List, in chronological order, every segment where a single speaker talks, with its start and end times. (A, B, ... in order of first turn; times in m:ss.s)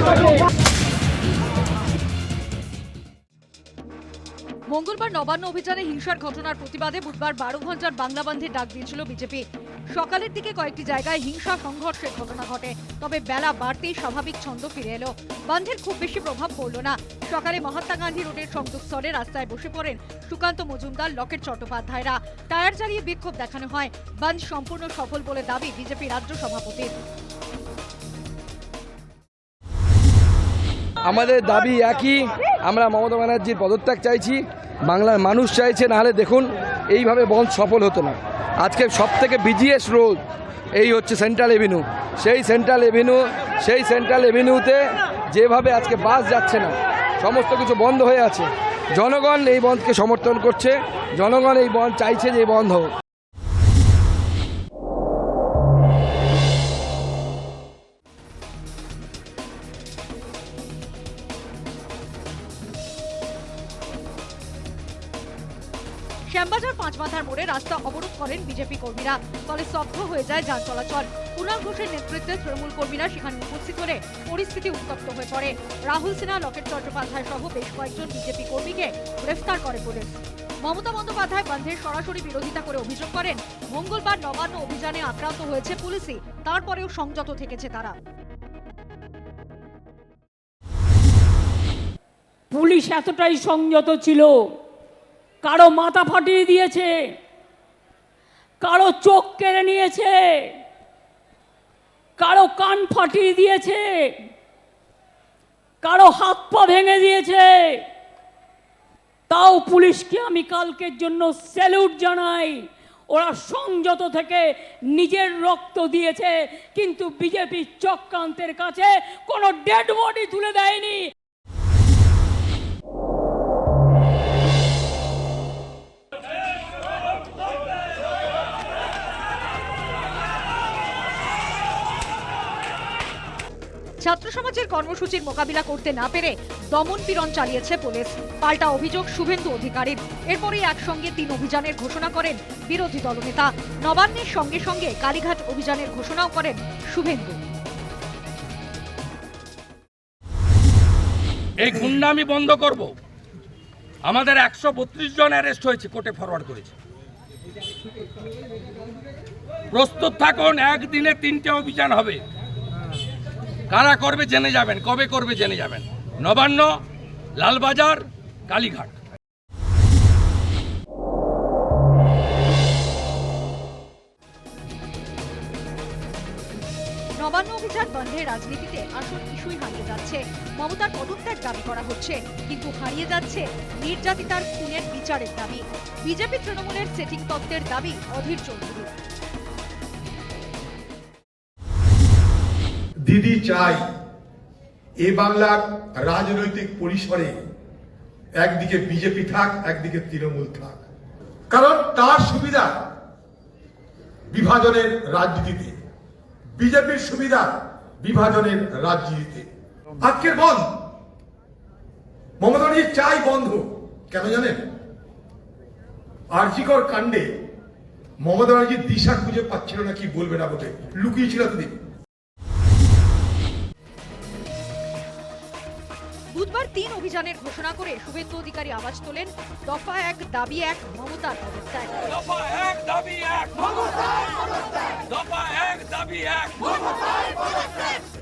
0:04.7-0:09.4 A
0:09.9-0:27.0 A
0:31.0-0:40.2 B
0:40.7-0:52.9 B
1:06.3-1:28.0 A
1:32.5-1:34.4 C
1:35.4-1:36.9 C
1:38.6-1:40.5 C
1:42.2-1:44.1 C
1:45.8-1:47.8 C
1:49.3-1:52.6 C
1:53.1-2:01.1 C
2:14.0-2:27.4 A
2:31.6-2:32.6 B
2:32.0-2:32.9 D
2:34.1-2:34.4 B
2:34.1-2:36.7 D
2:39.7-2:42.2 D
2:43.7-2:46.7 D
2:47.4-2:47.9 B
2:47.4-2:48.9 D
2:48.5-2:48.8 B
2:57.2-3:08.9 A
3:13.1-3:13.8 E
3:13.3-3:13.8 B
3:15.0-3:17.3 E
3:16.3-3:17.3 B
3:18.4-3:20.7 E
3:18.6-3:20.7 B
3:21.5-3:22.5 E
3:22.2-3:22.7 B
3:24.3-3:25.7 E
3:24.6-3:25.7 B
3:26.6-3:27.4 E
3:26.8-3:27.4 B
3:28.1-3:29.4 E
3:28.2-3:29.4 B
3:30.0-3:30.6 B
3:32.4-3:33.6 B
3:34.1-3:34.5 B
3:36.4-3:37.1 E
3:36.8-3:37.2 B
3:38.3-3:41.7 B
3:38.4-3:41.7 E
3:46.3-3:52.0 A
3:52.2-3:54.1 D
3:53.6-3:53.8 B
3:55.1-3:57.0 B
3:55.1-3:56.6 D